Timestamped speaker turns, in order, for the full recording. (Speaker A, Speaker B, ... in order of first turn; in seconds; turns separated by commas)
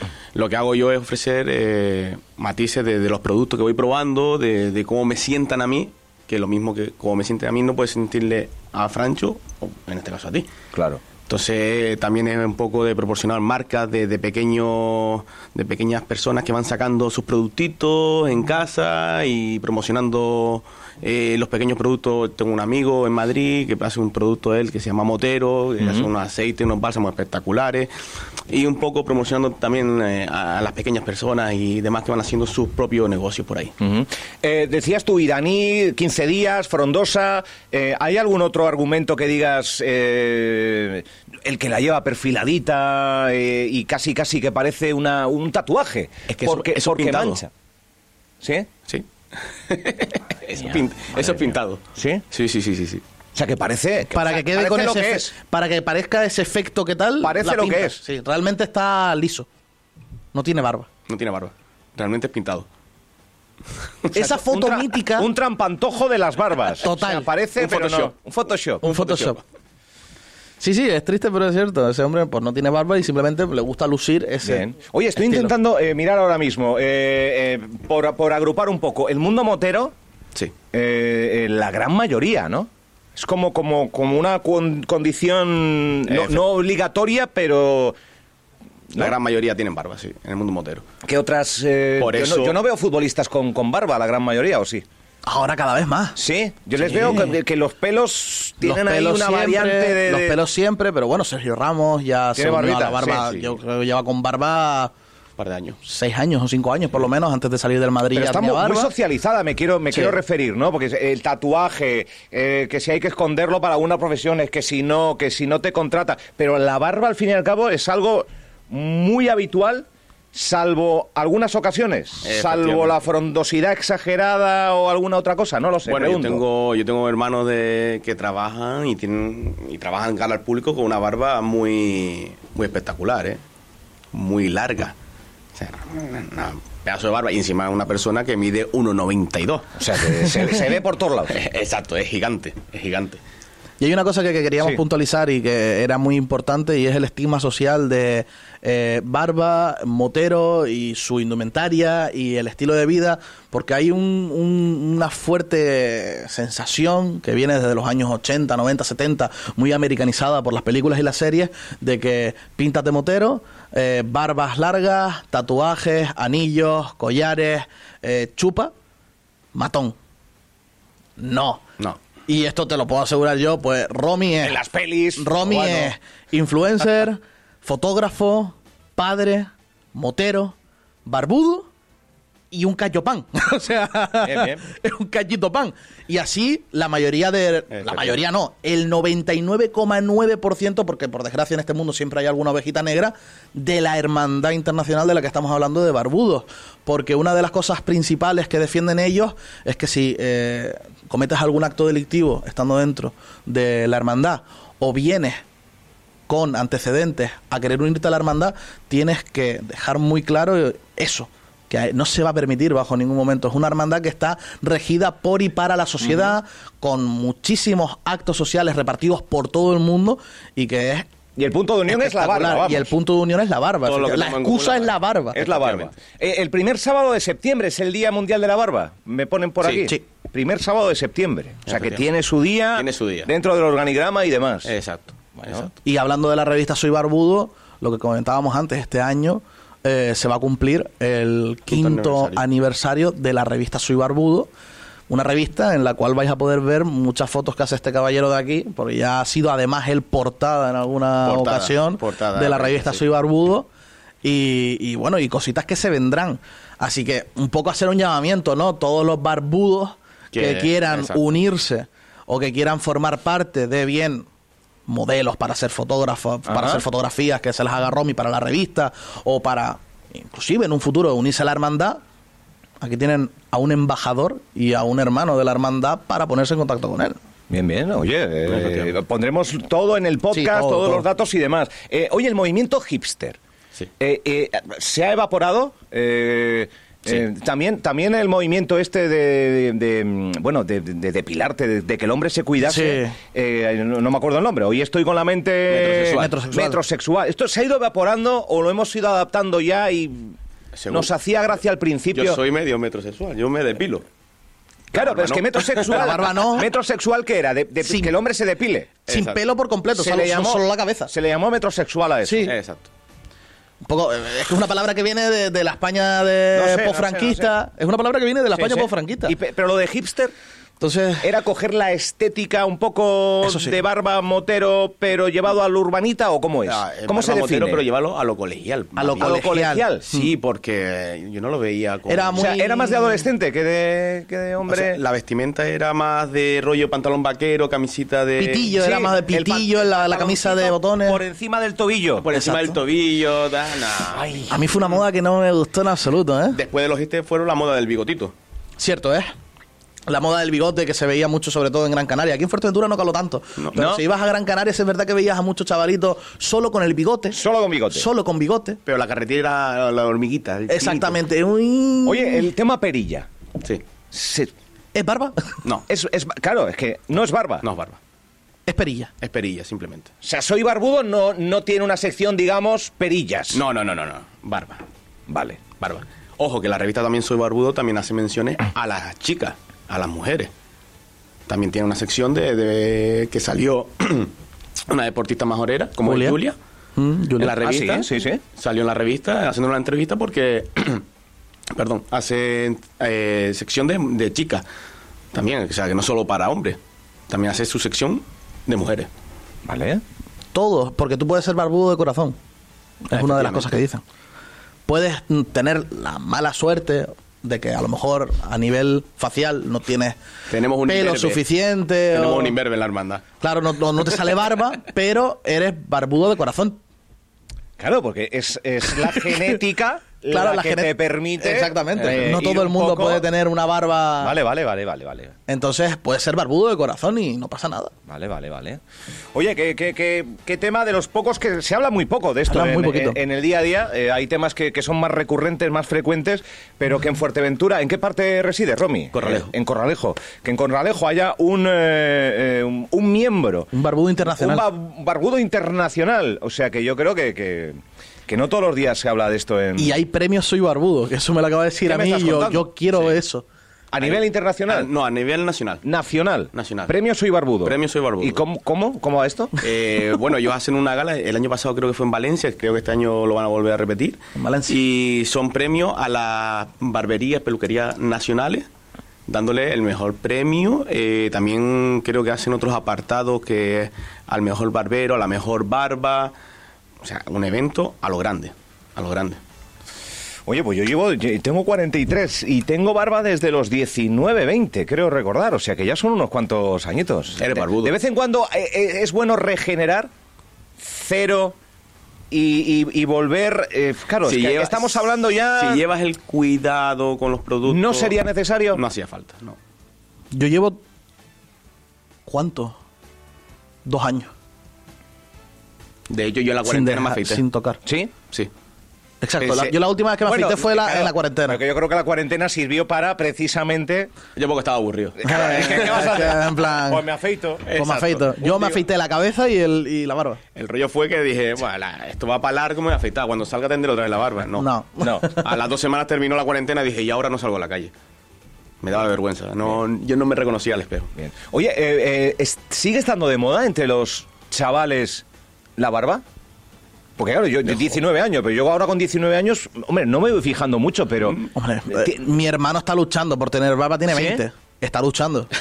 Speaker A: 0.3-10.5, Speaker B: 10.7-11.0, Speaker A: 11.3-27.9, Speaker B: 25.8-26.1, Speaker A: 28.5-33.7, Speaker B: 33.8-47.5, Speaker A: 46.3-47.4, Speaker B: 48.4-48.7, Speaker A: 49.6-53.0, Speaker B: 50.6-52.2, Speaker B: 53.3-55.3, Speaker C: 54.1-59.5, Speaker B: 57.2-58.0, Speaker C: 60.3-60.9, Speaker A: 61.1-62.6, Speaker C: 64.1-65.3, Speaker B: 64.4-68.8, Speaker C: 66.8-67.3, Speaker A: 67.5-68.1, Speaker A: 68.8-69.4, Speaker C: 68.8-69.4, Speaker C: 70.6-74.6, Speaker B: 74.4-79.9, Speaker C: 75.2-75.5, Speaker B: 80.7-88.0, Speaker A: 86.1-86.4, Speaker A: 88.9-90.8, Speaker B: 91.0-94.8, Speaker A: 92.0-92.6, Speaker C: 95.2-96.2, Speaker B: 96.2-100.4, Speaker C: 96.8-97.4, Speaker C: 98.6-104.9, Speaker B: 102.3-103.3, Speaker A: 103.2-103.5, Speaker A: 105.4-105.8, Speaker C: 105.8-108.9, Speaker B: 108.1-126.4, Speaker C: 109.9-110.2, Speaker A: 122.2-123.0, Speaker A: 125.8-133.4, Speaker A: 134.1-134.9, Speaker A: 135.5-140.5, Speaker B: 139.8-141.4, Speaker A: 141.3-143.2, Speaker C: 143.8-168.7, Speaker C: 169.5-169.9, Speaker C: 171.2-171.6, Speaker C: 172.3-174.6, Speaker B: 174.4-175.9, Speaker C: 175.2-180.5, Speaker C: 181.1-181.7, Speaker C: 182.5-205.4, Speaker B: 184.2-184.6, Speaker A: 187.7-188.2, Speaker C: 206.3-221.1, Speaker B: 221.3-222.9, Speaker C: 221.9-225.4, Speaker A: 223.8-225.9, Speaker B: 225.3-234.7, Speaker A: 229.6-229.9, Speaker A: 231.7-232.0, Speaker A: 232.7-233.3, Speaker A: 234.6-235.8, Speaker B: 235.4-235.7, Speaker C: 235.8-244.5, Speaker A: 241.7-242.4, Speaker C: 245.1-253.7, Speaker A: 251.2-253.0, Speaker C: 254.2-264.2, Speaker A: 260.3-261.2, Speaker C: 264.9-272.0, Speaker B: 266.5-266.8, Speaker C: 272.8-277.1, Speaker B: 277.5-283.4, Speaker A: 278.5-278.9, Speaker C: 280.3-281.1, Speaker B: 284.0-300.3, Speaker C: 292.6-293.1, Speaker A: 295.7-296.4, Speaker C: 296.1-296.8, Speaker A: 300.7-301.1, Speaker B: 300.9-302.4, Speaker A: 302.1-304.1, Speaker B: 304.9-308.9, Speaker A: 304.9-306.3, Speaker C: 305.9-306.7, Speaker C: 307.8-308.1, Speaker C: 309.1-311.1, Speaker A: 309.1-309.4, Speaker B: 309.9-312.5, Speaker C: 312.2-312.5, Speaker A: 312.4-312.9, Speaker C: 313.8-319.3, Speaker B: 316.5-317.5, Speaker B: 318.5-320.3, Speaker C: 320.8-321.3, Speaker B: 321.2-327.8, Speaker C: 323.4-323.8, Speaker A: 326.6-329.4, Speaker C: 328.9-330.3, Speaker B: 329.2-330.1, Speaker A: 330.0-332.6, Speaker C: 332.1-333.3, Speaker B: 332.3-335.0, Speaker A: 334.7-338.9, Speaker C: 338.4-341.2, Speaker B: 338.7-342.3, Speaker A: 342.2-344.6, Speaker C: 342.3-342.8, Speaker B: 344.1-344.6, Speaker C: 344.5-346.6, Speaker A: 346.5-348.3, Speaker C: 348.8-349.3, Speaker C: 350.1-357.4, Speaker A: 353.6-353.9, Speaker B: 353.8-354.0, Speaker B: 357.3-358.1, Speaker C: 357.9-358.8, Speaker A: 358.8-361.2, Speaker C: 360.7-362.5, Speaker B: 362.0-363.3, Speaker B: 364.1-364.5, Speaker C: 364.9-365.5, Speaker B: 365.9-367.6, Speaker A: 367.6-368.0, Speaker C: 368.7-369.1, Speaker A: 369.2-370.1, Speaker B: 370.2-373.6, Speaker A: 373.5-374.8, Speaker B: 375.3-375.6, Speaker A: 375.8-380.5, Speaker A: 381.5-384.3, Speaker A: 384.9-386.6, Speaker C: 386.0-386.4, Speaker C: 386.9-387.6, Speaker A: 387.4-391.0, Speaker B: 387.6-388.4, Speaker A: 391.7-394.6, Speaker A: 395.3-396.8, Speaker A: 397.3-399.1, Speaker B: 399.6-400.0, Speaker C: 400.5-402.4, Speaker C: 403.1-404.0, Speaker A: 403.1-403.8, Speaker C: 404.9-410.1, Speaker A: 410.5-411.4, Speaker C: 410.9-412.6, Speaker A: 412.1-413.2, Speaker C: 413.4-416.8, Speaker B: 417.8-423.2, Speaker C: 419.0-419.6, Speaker C: 420.3-424.4, Speaker A: 422.0-422.3, Speaker B: 424.2-425.3, Speaker C: 425.5-427.9, Speaker B: 428.1-428.8, Speaker B: 429.3-443.7, Speaker C: 432.5-433.2, Speaker A: 439.1-439.5, Speaker C: 443.7-444.7, Speaker B: 444.2-450.0, Speaker C: 449.8-453.4, Speaker B: 451.9-453.2, Speaker B: 453.9-454.9, Speaker A: 454.0-455.8, Speaker B: 455.8-459.5, Speaker A: 456.5-456.9, Speaker A: 457.6-458.4, Speaker A: 459.6-468.6, Speaker C: 464.4-464.8, Speaker A: 469.3-476.3, Speaker A: 477.0-479.4, Speaker B: 480.5-490.1, Speaker A: 487.4-487.9, Speaker B: 490.8-491.6, Speaker B: 492.3-495.8, Speaker A: 494.2-499.6, Speaker B: 497.6-498.8, Speaker C: 500.3-500.8, Speaker C: 502.3-502.8, Speaker C: 503.8-504.3, Speaker A: 506.1-507.4, Speaker C: 506.6-507.8, Speaker B: 507.8-508.1, Speaker C: 509.2-511.6, Speaker A: 509.4-509.8, Speaker B: 510.2-514.1, Speaker A: 514.4-516.2, Speaker B: 515.2-517.6, Speaker C: 515.2-517.0, Speaker A: 517.6-518.8, Speaker C: 517.7-520.4, Speaker A: 520.5-524.7, Speaker C: 524.6-525.5, Speaker B: 525.0-525.4, Speaker A: 525.2-527.9, Speaker A: 528.8-531.1, Speaker B: 531.1-535.2, Speaker B: 535.8-536.2, Speaker B: 537.2-542.2, Speaker C: 541.5-545.5, Speaker B: 544.1-544.4